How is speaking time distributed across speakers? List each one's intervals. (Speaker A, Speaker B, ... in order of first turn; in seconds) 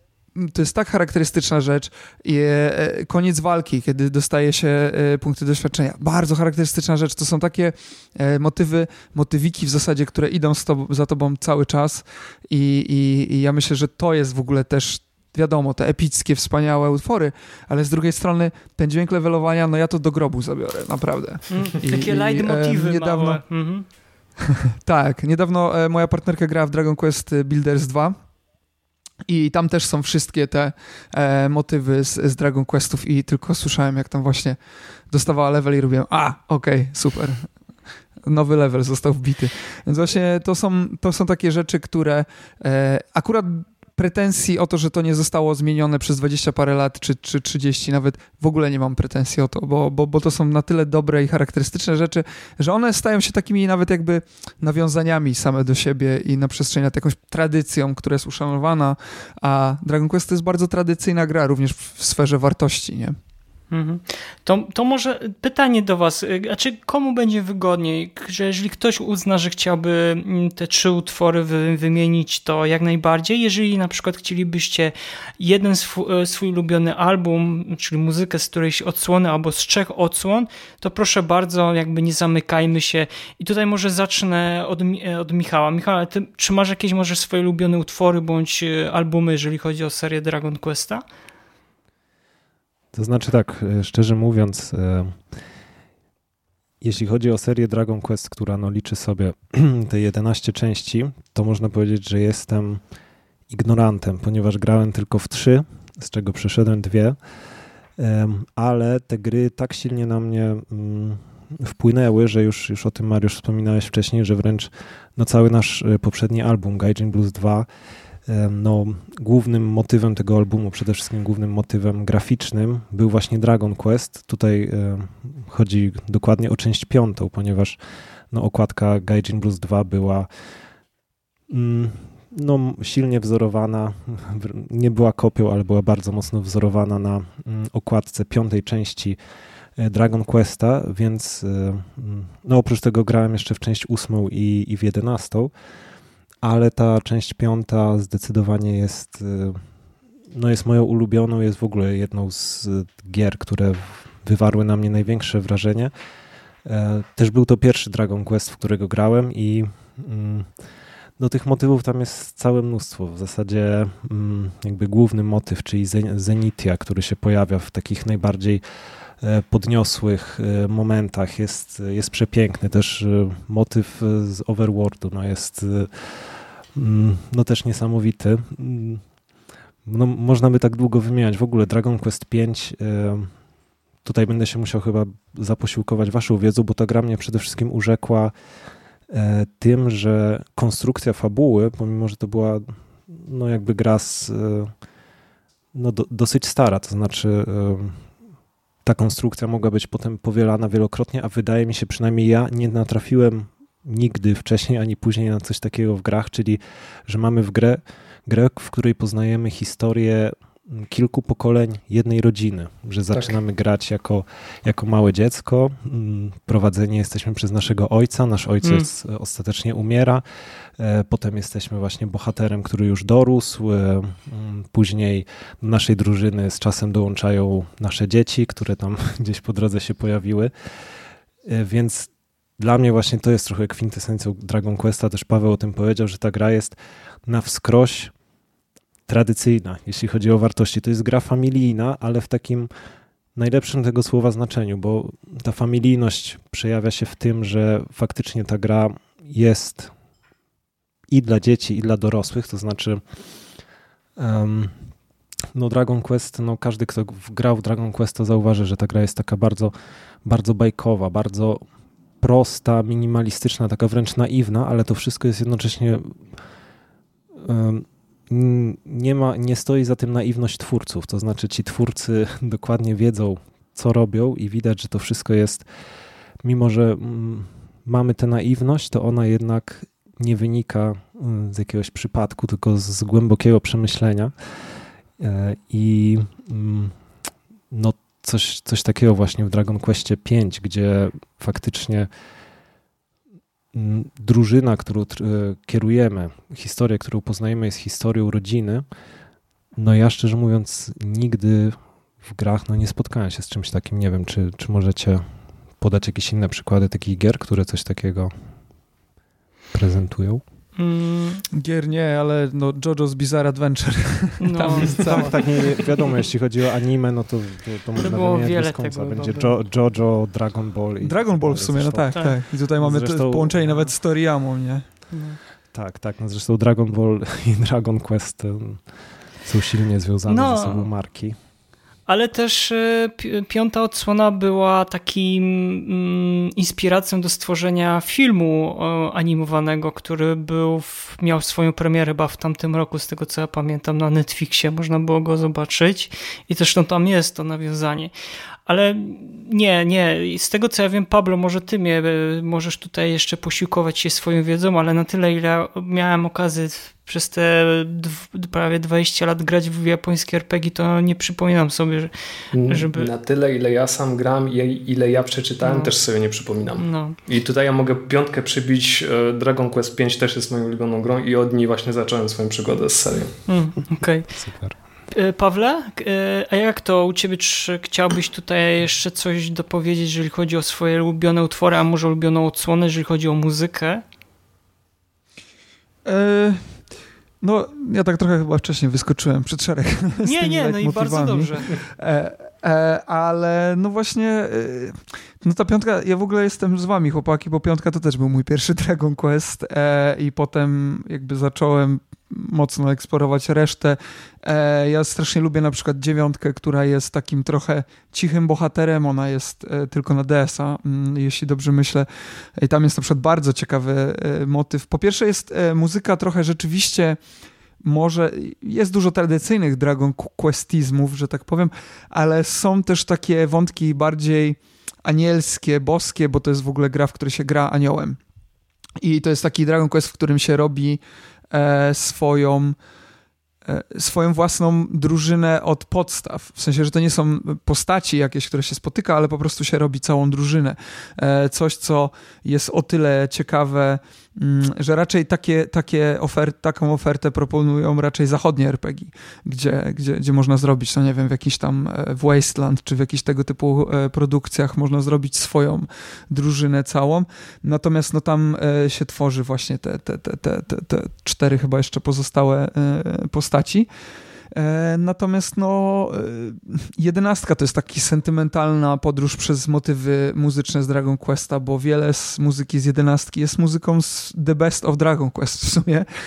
Speaker A: 0.3-23.4, 24.8-28.1, 29.3-34.6, 35.1-37.5, 38.2-63.1, 311.5-315.8, 321.0-324.8, 386.0-386.8, 387.4-417.2, 417.8-428.2, 429.0-432.8, 433.6-463.9, 464.5-476.1
Speaker B: 21.5-23.8, 63.7-91.0, 310.8-311.4, 314.4-315.4, 318.0-319.6, 325.1-325.4, 330.3-330.9, 332.1-348.1, 348.7-363.1, 365.6-365.9, 366.8-367.1, 373.5-374.2, 375.1-384.0, 390.2-391.7
Speaker C: 92.9-95.2, 96.8-102.8, 103.5-107.2, 108.0-117.7, 118.2-127.8, 128.3-130.3, 131.5-139.2, 139.8-145.5, 146.4-149.6, 150.3-155.9, 156.6-160.5, 161.2-168.6, 169.2-179.0, 179.8-183.3, 184.0-188.3, 189.1-194.7, 195.7-198.0, 198.8-220.2, 220.8-230.5, 231.4-238.1, 239.1-242.7, 243.3-249.9, 251.1-253.0, 254.2-254.8, 255.5-261.6, 262.2-266.2, 267.4-275.6, 276.4-284.3, 285.2-286.9, 287.7-292.1, 293.7-298.9, 299.8-305.2, 305.8-308.3, 309.7-310.4, 314.8-323.9, 325.7-328.8, 329.4-331.4, 374.3-374.8
Speaker D: 213.1-213.4, 362.5-373.3